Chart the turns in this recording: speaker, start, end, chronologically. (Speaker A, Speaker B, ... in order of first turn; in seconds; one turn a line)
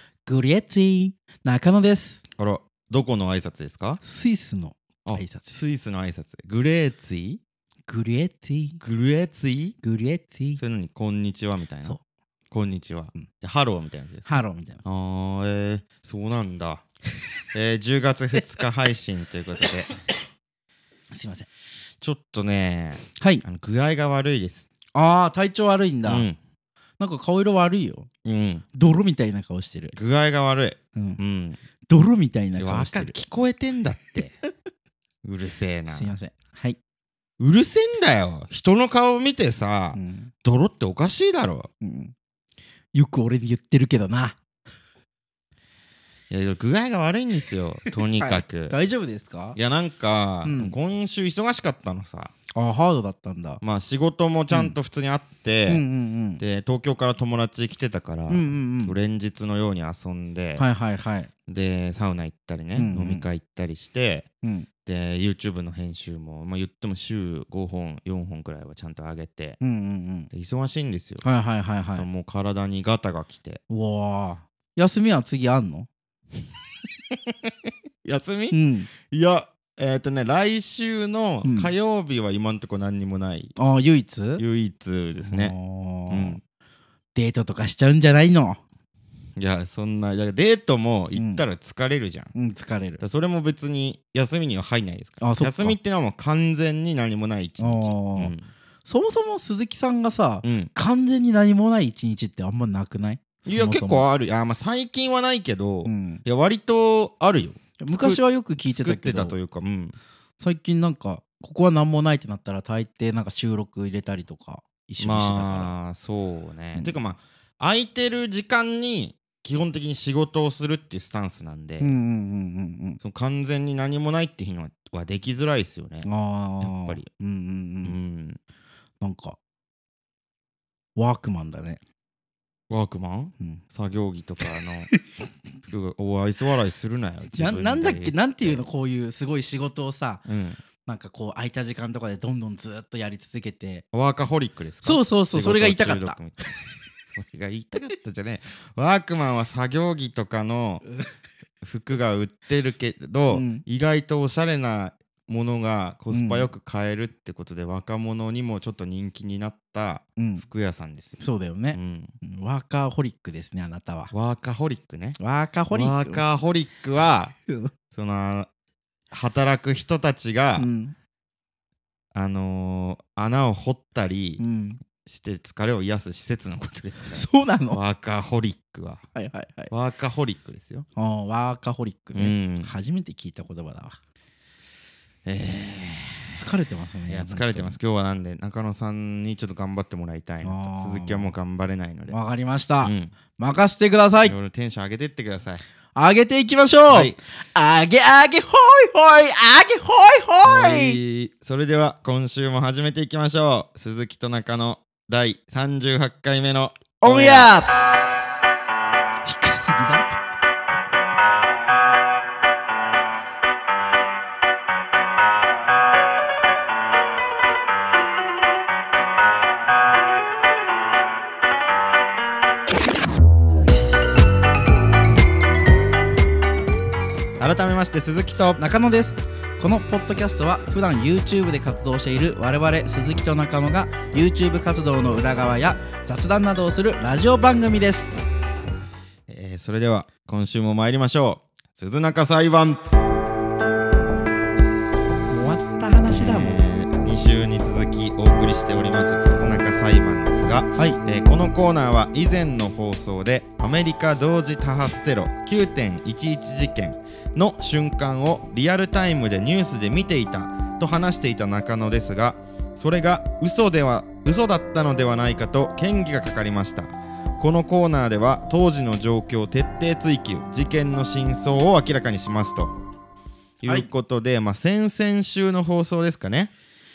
Speaker A: 0.3-2.2
Speaker B: 2.4-4.0
Speaker A: 4.0-5.6
Speaker B: 5.0-7.4
Speaker A: 7.9-8.8
Speaker B: 8.8-9.8
Speaker A: 9.8-10.6
Speaker B: 10.6-12.0
Speaker B: 12.5-16.9
Speaker A: 14.3-14.8
Speaker B: 17.5-20.0
Speaker A: 21.1-21.5
Speaker B: 22.0-24.7
Speaker A: 23.2-23.4
Speaker A: 24.9-26.3
Speaker B: 26.1-26.4
Speaker A: 27.0-28.1
Speaker B: 28.2-28.6
Speaker A: 28.7-30.0
Speaker B: 29.9-31.6
Speaker A: 31.9-33.2
Speaker B: 32.6-34.4
Speaker B: 35.2-36.1
Speaker A: 35.9-36.8
Speaker B: 37.4-41.7
Speaker A: 39.9-40.3
Speaker A: 41.8-42.1
Speaker A: 42.9-44.4
Speaker B: 46.3-48.8
Speaker A: 47.9-49.6
Speaker B: 49.5-52.3
Speaker A: 50.4-50.8
Speaker A: 52.5-53.6
Speaker B: 53.6-55.8
Speaker A: 54.5-54.8
Speaker A: 55.7-56.4
Speaker B: 56.4-60.6
Speaker A: 58.3-59.0
Speaker A: 60.6-61.3
Speaker B: 61.5-64.3
Speaker A: 62.8-63.3
Speaker A: 64.4-64.7
Speaker B: 64.9-69.6
Speaker A: 69.6-70.3
Speaker B: 70.3-71.2
Speaker A: 71.2-72.1
Speaker B: 71.9-73.6
Speaker A: 73.7-75.9
Speaker B: 77.1-77.5
Speaker B: 78.0-83.5
Speaker A: 78.5-78.9
Speaker A: 81.4-81.7
Speaker A: 83.6-84.4
Speaker B: 84.4-85.5
Speaker A: 85.2-86.4
Speaker B: 86.1-86.4
Speaker A: 87.2-88.6
Speaker B: 89.4-92.3
Speaker A: 91.2-91.4
Speaker A: 92.3-93.0
Speaker B: 93.0-98.5
Speaker A: 95.2-95.8
Speaker A: 97.6-98.3
Speaker A: 98.9-104.0
Speaker B: 100.4-100.7
Speaker B: 103.5-110.0
Speaker A: 105.8-106.2
Speaker A: 107.8-109.4
Speaker A: 110.4-115.7
Speaker B: 115.0-122.0
Speaker A: 121.8-123.0
Speaker B: 123.0-126.1
Speaker A: 126.0-128.0
Speaker B: 126.6-127.1
Speaker B: 127.8-128.4
Speaker A: 129.0-129.4
Speaker A: 131.0-131.8
Speaker B: 132.7-134.9
Speaker B: 135.6-138.6
Speaker A: 137.3-140.2
Speaker B: 140.3-140.6
Speaker A: 140.9-143.8
Speaker B: 143.9-146.6
Speaker A: 144.8-146.2
Speaker B: 147.1-150.8
Speaker B: 151.6-161.2
Speaker A: 153.3-153.6
Speaker A: 156.1-156.5
Speaker A: 160.2-160.4
Speaker A: 161.2-164.1
Speaker B: 161.7-162.2
Speaker B: 164.1-165.2
Speaker A: 165.2-166.2
Speaker B: 165.7-167.3
Speaker B: 167.9-168.5
Speaker B: 169.1-170.7
Speaker A: 170.6-170.9
Speaker B: 172.1-174.4
Speaker A: 174.4-174.8
Speaker B: 175.0-179.1
Speaker A: 177.1-177.8
Speaker A: 179.2-179.7
Speaker B: 179.7-180.9
Speaker A: 181.0-184.0
Speaker B: 182.1-182.7
Speaker B: 185.3-186.4
Speaker A: 186.3-187.8
Speaker B: 187.1-192.2
Speaker A: 190.4-191.3
Speaker A: 192.1-194.3
Speaker B: 192.8-193.1
Speaker B: 194.2-195.6
Speaker A: 195.9-201.0
Speaker B: 196.9-197.2
Speaker B: 200.4-207.5
Speaker A: 207.0-207.7
Speaker A: 209.2-210.3
Speaker B: 227.4-228.6
Speaker A: 228.6-238.2
Speaker B: 239.3-242.8
Speaker A: 245.3-246.6
Speaker B: 246.1-272.8
Speaker B: 273.6-276.5